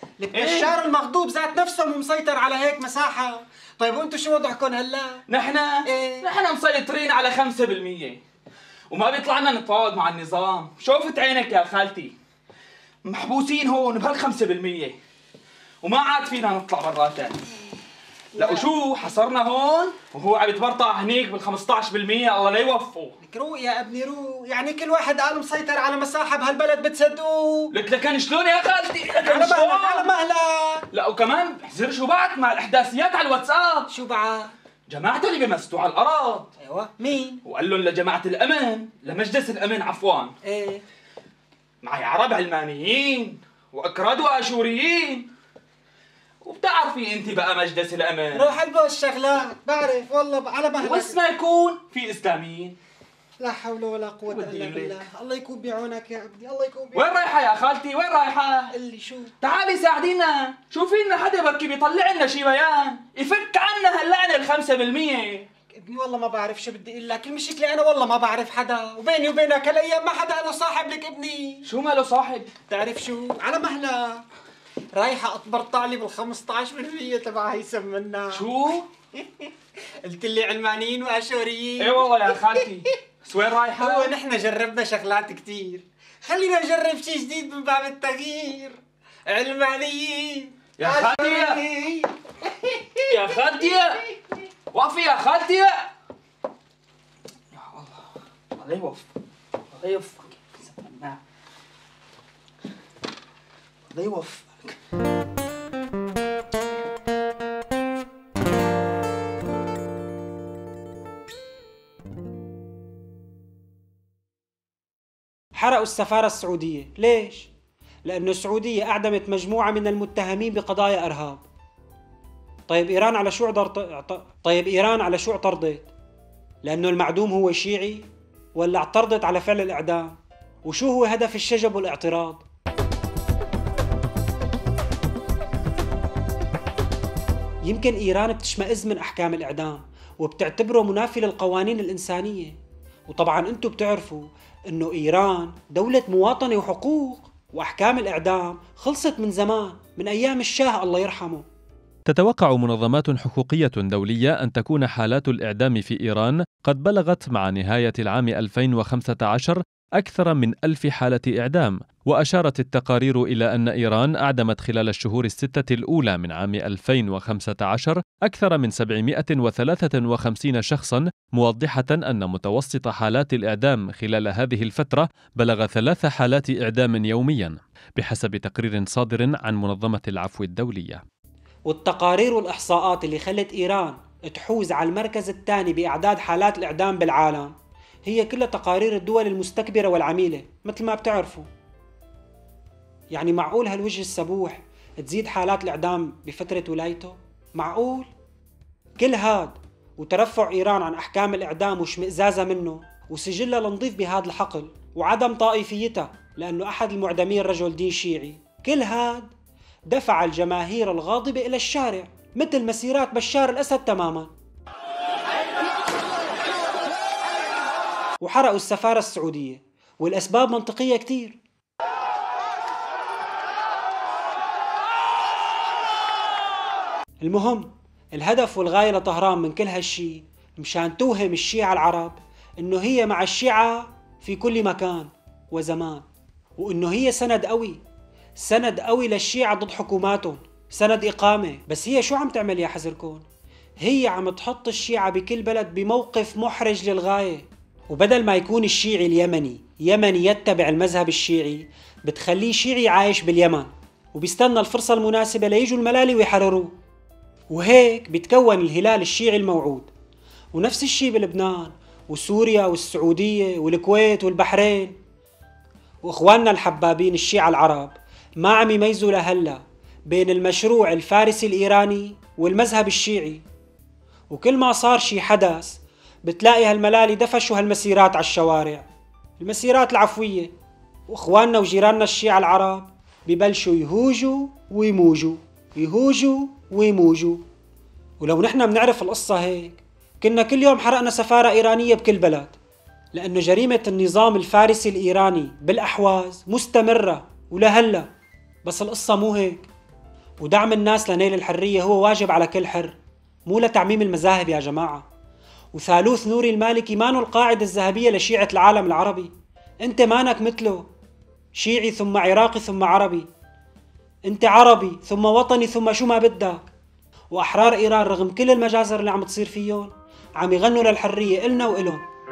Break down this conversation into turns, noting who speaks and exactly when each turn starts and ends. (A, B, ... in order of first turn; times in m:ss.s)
0:00.2-0:05.2 A
0:00.3-0:00.8 B
0:05.3-0:08.2 B
0:05.9-0:06.2 A
0:08.9-0:12.1 B
0:13.0-0:15.0 B
0:15.8-0:17.4 B
0:18.3-0:23.2 B
0:18.4-0:18.6 A
0:23.2-0:27.7 A
0:27.7-0:30.1 B
0:29.2-0:30.8 A
0:30.9-0:33.9 B
0:33.9-0:34.5 A
0:34.9-0:36.5 B
0:36.6-0:37.4 A
0:37.4-0:40.3 B
0:40.4-0:40.8 A
0:41.8-0:45.3 B
0:46.4-0:48.6 B
0:48.3-0:51.2 A
0:50.8-0:52.7 B
0:53.4-0:57.1 A
0:54.3-0:55.1 B
0:56.9-0:58.8 B
0:58.8-0:59.3 A
0:59.4-1:05.5 B
1:05.7-1:11.6 A
1:11.6-1:12.5 B
1:12.7-1:14.2 A
1:14.9-1:18.4 A
1:18.3-1:18.9 B
1:19.2-1:19.5 A
1:20.0-1:22.0 A
1:21.8-1:24.2 B
1:23.8-1:32.1 A
1:30.8-1:31.7 B
1:33.0-1:34.1 B
1:34.7-1:35.9 B
1:37.5-1:39.1 B
1:39.7-1:41.2 B
1:43.9-1:44.8 B
1:55.5-1:57.5 C
1:58.0-2:01.4 C
2:02.7-2:05.9 C
2:06.6-2:10.1 C
2:10.6-2:12.4 C
2:17.6-2:22.6 C
2:23.1-2:31.4 C
2:32.1-3:01.0 D
3:01.7-3:07.5 C
3:08.0-3:11.5 C
3:13.1-3:18.1 C
3:19.0-3:29.3 C
3:29.9-3:34.3 C
3:38.2-3:41.4 C
3:47.2-3:56.0 C
3:56.6-3:57.8 C
3:58.4-4:03.2 C
4:03.8-4:16.7 C
4:17.5-4:19.9 C
4:20.5-4:25.0 C
4:26.0-4:33.4 C
4:34.3-4:38.9 C
4:39.4-4:40.5 C
4:41.1-4:47.4 C
4:48.2-4:52.6 C
4:53.1-4:58.1 C
4:58.6-4:59.7 C
5:00.4-5:05.0 C
5:05.7-5:09.3 C
5:09.8-5:10.9 C
5:11.5-5:13.3 C
5:14.3-5:16.7 C
5:17.3-5:22.0 C